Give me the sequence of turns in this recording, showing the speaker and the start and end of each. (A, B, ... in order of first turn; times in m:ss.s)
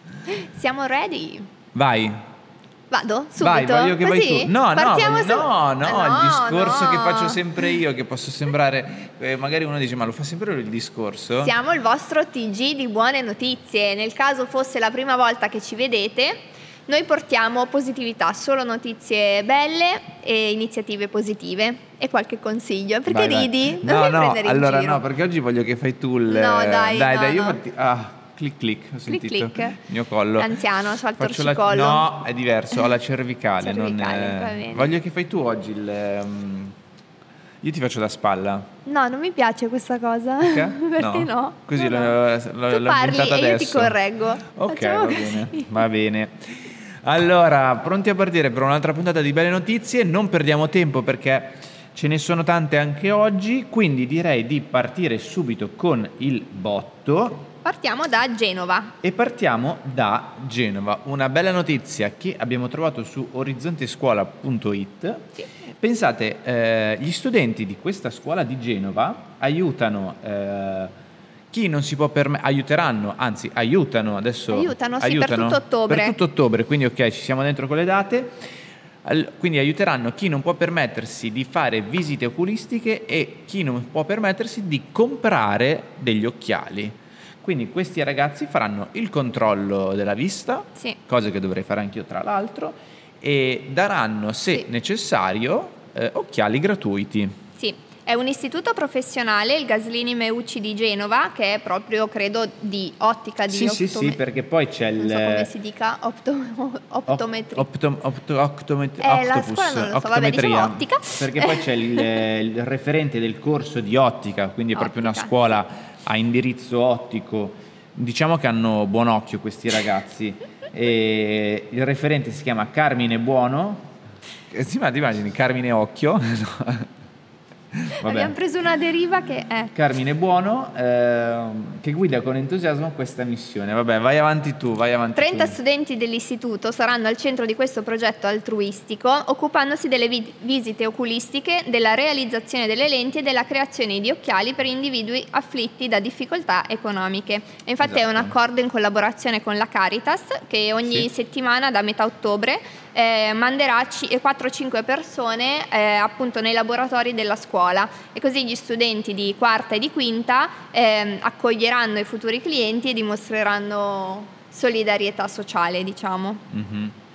0:00.3-0:01.5 A
0:01.7-0:02.2 B
0:02.9-0:07.7 A
0:03.4-0:11.5 B
0:11.4-0:25.0 A
0:23.1-0:30.5 B
0:26.3-0:27.6 A
0:29.1-0:29.8 A
0:30.4-0:32.1 A
0:31.2-0:36.7 B
0:33.6-0:34.9 A
0:37.6-0:38.7 B
0:38.8-0:42.2 A
0:40.4-0:44.0 B
0:42.7-0:45.8 A
0:44.5-0:57.5 B
0:57.6-0:58.9 A
0:59.0-1:10.9 B
1:11.5-1:18.4 B
1:14.5-1:16.2 A
1:19.0-1:37.3 B
1:37.6-1:44.2 A
1:43.5-1:45.5 B
1:45.0-1:47.7 A
1:47.1-2:03.9 B
1:49.0-1:52.0 A
1:54.7-1:55.6 A
2:04.5-2:06.9 B
2:07.7-2:08.3 B
2:08.0-2:09.7 A
2:09.7-2:15.6 B
2:15.1-2:46.4 A
2:27.8-2:28.3 B
2:46.5-2:46.9 B